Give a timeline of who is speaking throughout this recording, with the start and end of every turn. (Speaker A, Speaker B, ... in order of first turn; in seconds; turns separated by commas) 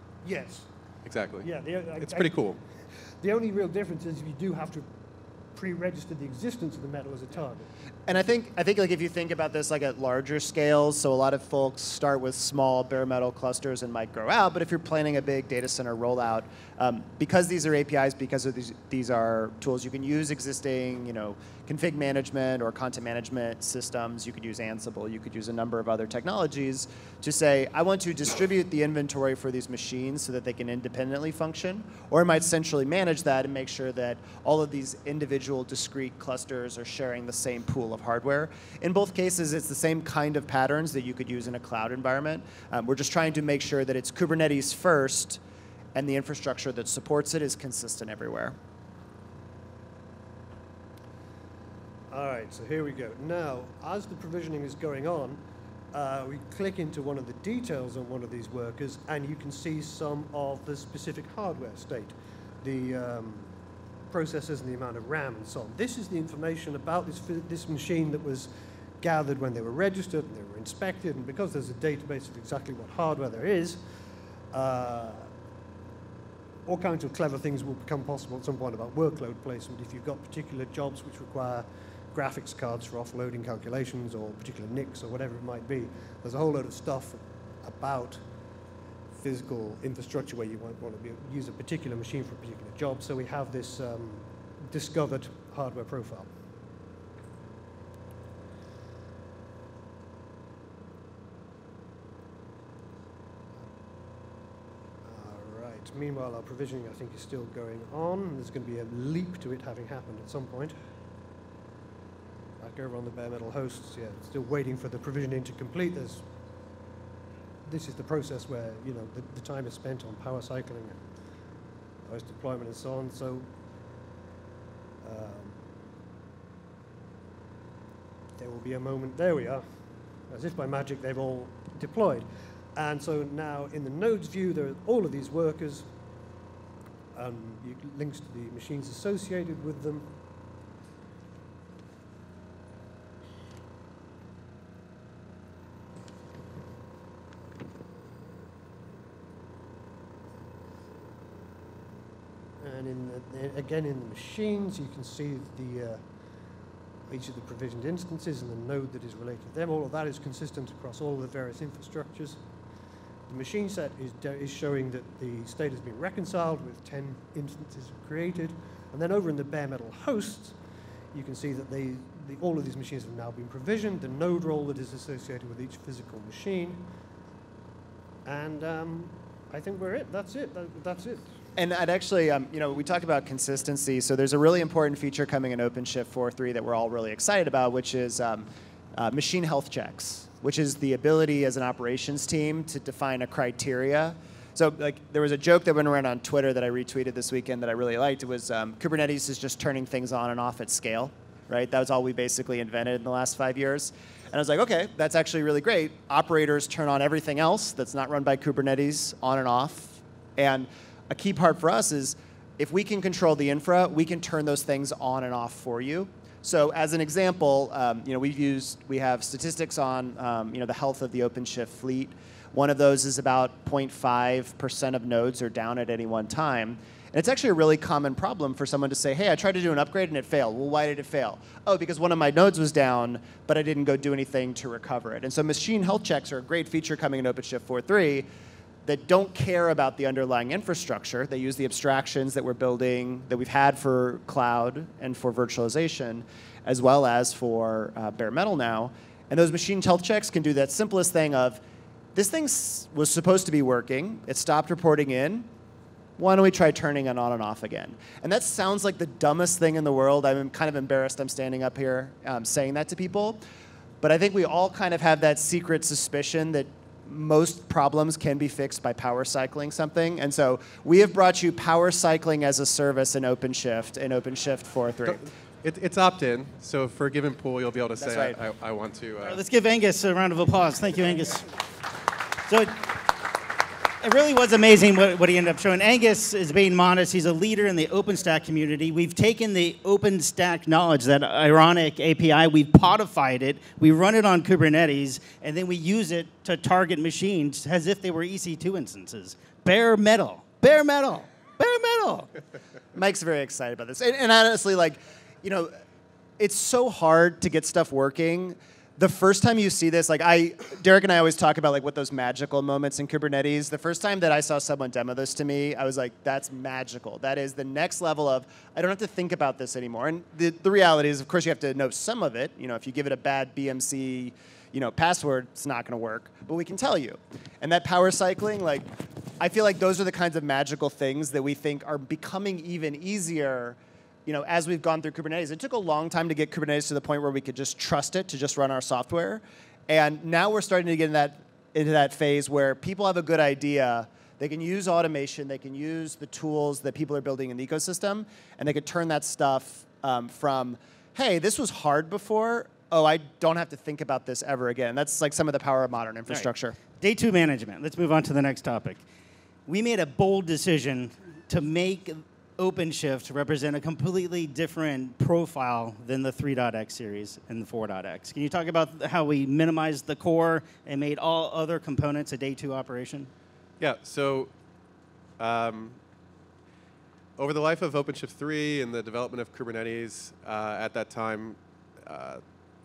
Speaker A: 0.2-0.7, Speaker B: 1.1-1.5, Speaker A: 1.4-2.4, Speaker B: 2.0-2.6, Speaker A: 3.2-4.9, Speaker A: 5.5-7.7, Speaker C: 8.1-45.4, Speaker C: 46.0-48.6, Speaker A: 52.1-63.5, Speaker A: 64.1-73.8, Speaker A: 74.5-75.3, Speaker A: 76.7-88.2, Speaker A: 89.1-96.3, Speaker A: 105.0-110.8, Speaker A: 112.6-116.2, Speaker A: 117.7-121.0, Speaker A: 122.0-123.5, Speaker A: 125.0-125.6, Speaker A: 128.4-129.7, Speaker A: 130.3-135.9, Speaker A: 137.1-140.1, Speaker A: 152.6-156.0, Speaker A: 157.1-162.4, Speaker A: 163.3-170.6, Speaker A: 171.1-176.9, Speaker A: 178.2-181.3, Speaker C: 181.6-238.3, Speaker C: 238.8-251.6, Speaker C: 252.2-255.5, Speaker C: 256.2-263.4, Speaker C: 264.0-275.3, Speaker B: 275.1-279.4, Speaker C: 278.0-278.4, Speaker D: 279.2-281.5, Speaker D: 282.5-282.9, Speaker D: 284.0-302.3, Speaker C: 302.9-305.7, Speaker C: 306.4-356.8, Speaker D: 356.3-359.0, Speaker D: 359.7-373.3, Speaker B: 373.8-374.5, Speaker B: 375.4-376.0, Speaker B: 377.4-382.4